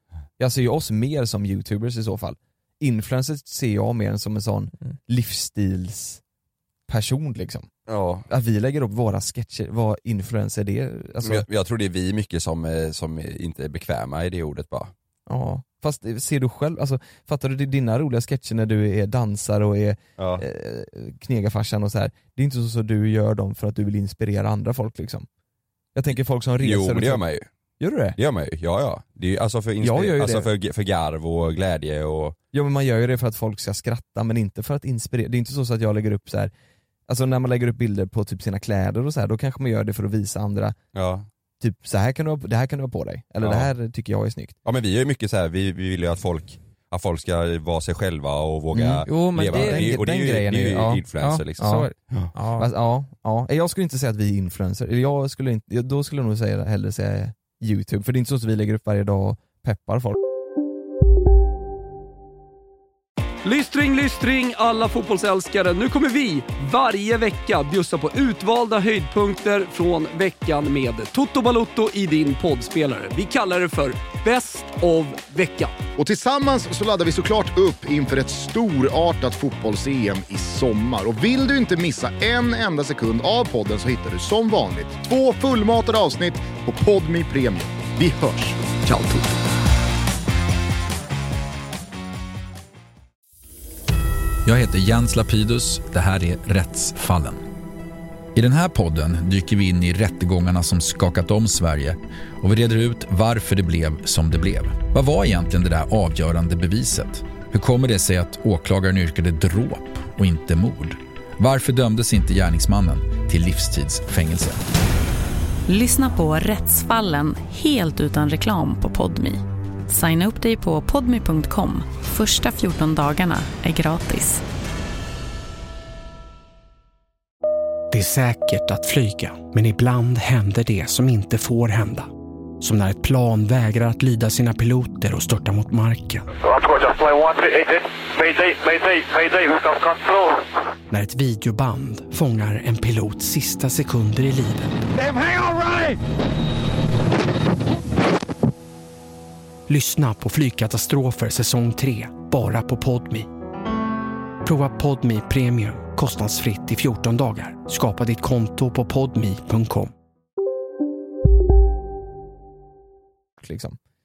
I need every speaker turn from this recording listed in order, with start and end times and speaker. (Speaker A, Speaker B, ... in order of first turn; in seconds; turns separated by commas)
Speaker A: 0.4-6.2, Speaker A: 6.9-7.7, Speaker B: 7.9-8.2, Speaker A: 8.3-11.4, Speaker B: 11.2-14.9, Speaker A: 15.3-25.3, Speaker B: 20.2-20.4, Speaker A: 25.9-27.2, Speaker B: 26.6-27.5, Speaker A: 27.8-28.2, Speaker B: 28.2-32.4, Speaker A: 29.8-30.5, Speaker A: 32.5-36.5, Speaker A: 37.1-40.8, Speaker B: 40.9-41.3, Speaker A: 41.6-44.5, Speaker B: 43.4-43.7, Speaker B: 44.6-52.3, Speaker A: 48.7-51.0, Speaker C: 49.0-49.9, Speaker C: 51.2-52.7, Speaker A: 51.6-51.9, Speaker A: 52.6-60.2, Speaker D: 63.4-75.8, Speaker E: 76.0-89.2, Speaker A: 88.9-89.2, Speaker F: 94.4-97.4, Speaker F: 98.3-114.6, Speaker G: 115.7-124.4, Speaker H: 127.9-136.2, Speaker D: 136.4-140.4, Speaker H: 140.9-144.8, Speaker H: 149.7-153.3, Speaker H: 154.4-159.9, Speaker A: 163.4-163.8